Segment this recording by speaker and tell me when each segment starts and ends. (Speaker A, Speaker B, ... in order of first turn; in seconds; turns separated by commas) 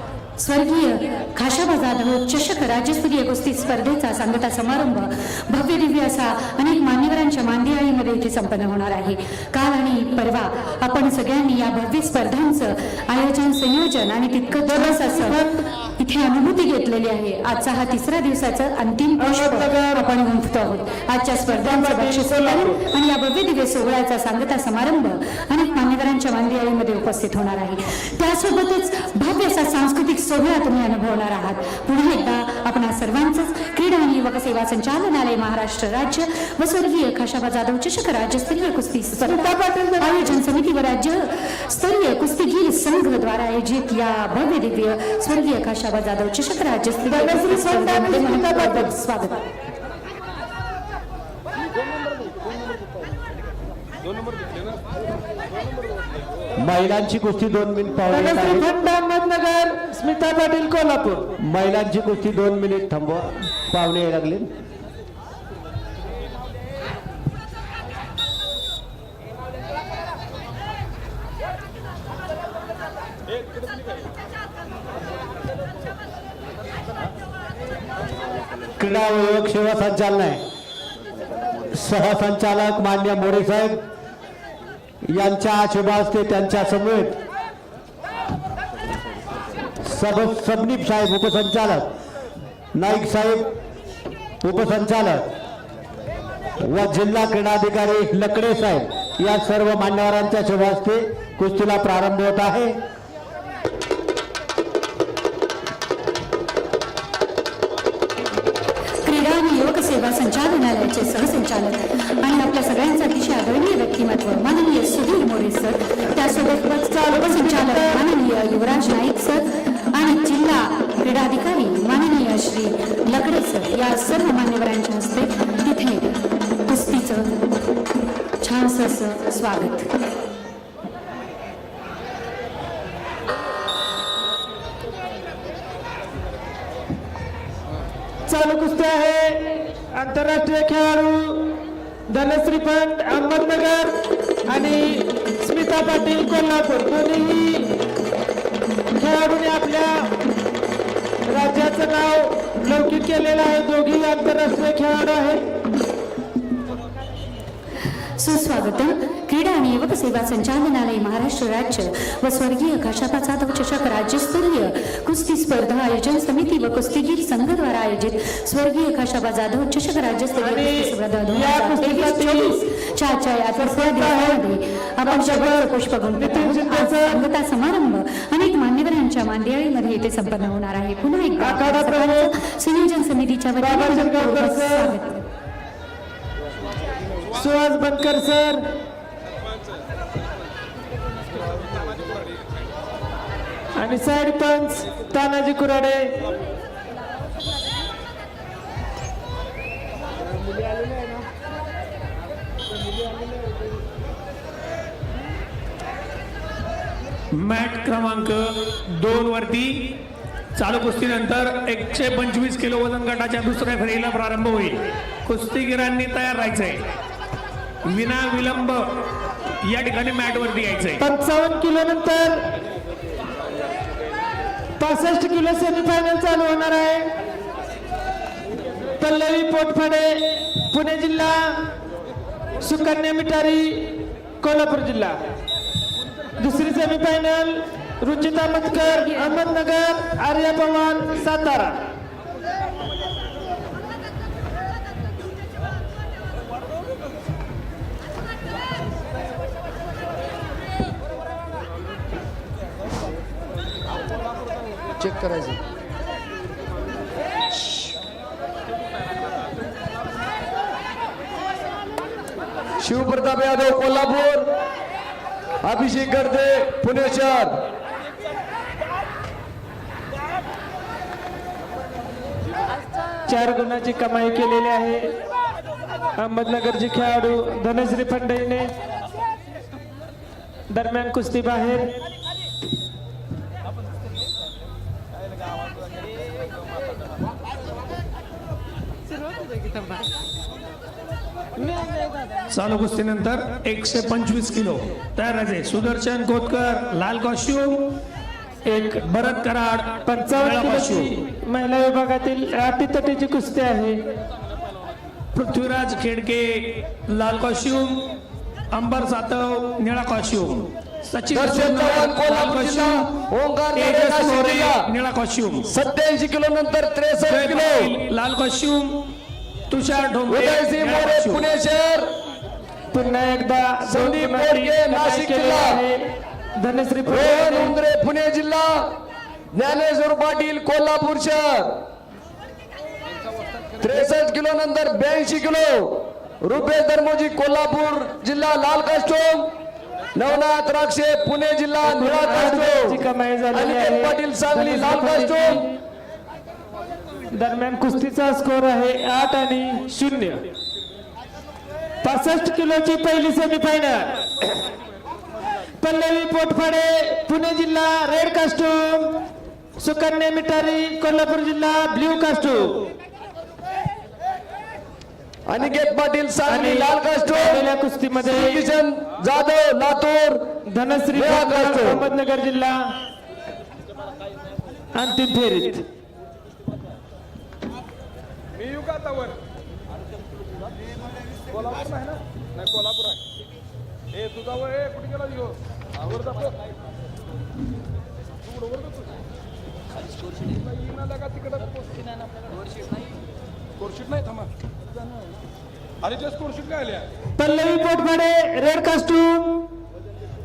Speaker A: 0.4-49.5, Speaker B: 14.6-15.6, Speaker B: 19.2-20.1, Speaker B: 21.6-22.8, Speaker B: 39.1-40.4, Speaker B: 47.1-48.9, Speaker C: 56.6-58.6, Speaker B: 58.1-61.3, Speaker C: 61.4-64.5, Speaker C: 78.8-80.4, Speaker C: 81.7-83.8, Speaker C: 85.0-87.2, Speaker C: 89.8-91.9, Speaker C: 92.8-93.5, Speaker C: 94.4-95.2, Speaker C: 96.6-102.8, Speaker A: 109.0-126.1, Speaker B: 117.0-118.0, Speaker A: 126.7-127.3, Speaker A: 128.4-129.9, Speaker B: 138.3-147.8, Speaker B: 148.9-150.1, Speaker B: 151.3-155.4, Speaker A: 158.2-185.2, Speaker B: 170.4-172.6, Speaker B: 173.6-174.4, Speaker B: 175.1-177.2, Speaker B: 181.4-182.3, Speaker B: 183.6-184.9, Speaker B: 187.3-188.6, Speaker B: 193.8-196.3, Speaker D: 207.3-209.9, Speaker D: 210.6-216.9, Speaker D: 217.8-218.8, Speaker D: 219.6-221.0, Speaker B: 221.0-222.5, Speaker B: 224.8-227.2, Speaker B: 229.0-231.7, Speaker B: 232.6-235.2, Speaker B: 236.4-241.8, Speaker E: 255.0-255.6, Speaker E: 262.8-264.5, Speaker E: 265.6-267.6, Speaker B: 273.3-275.2, Speaker B: 276.2-278.7, Speaker B: 280.7-282.0, Speaker D: 292.5-297.8, Speaker B: 298.7-298.9, Speaker D: 298.9-301.2, Speaker B: 300.0-304.0, Speaker D: 305.3-308.1, Speaker D: 308.7-313.1, Speaker E: 311.3-314.9, Speaker D: 313.7-315.7, Speaker E: 315.7-318.0, Speaker D: 317.2-319.1, Speaker D: 319.7-321.4, Speaker E: 320.3-322.1, Speaker B: 322.9-327.8, Speaker E: 323.8-325.8, Speaker E: 327.1-328.9, Speaker E: 329.5-331.8, Speaker E: 333.8-339.5, Speaker E: 340.1-345.6, Speaker B: 341.9-345.7, Speaker B: 347.3-350.5, Speaker B: 352.0-354.5, Speaker B: 355.8-359.2, Speaker B: 359.8-362.9, Speaker E: 365.5-370.4, Speaker B: 366.5-368.6, Speaker B: 370.6-372.9, Speaker E: 371.1-372.1, Speaker B: 374.9-375.9, Speaker B: 397.4-399.7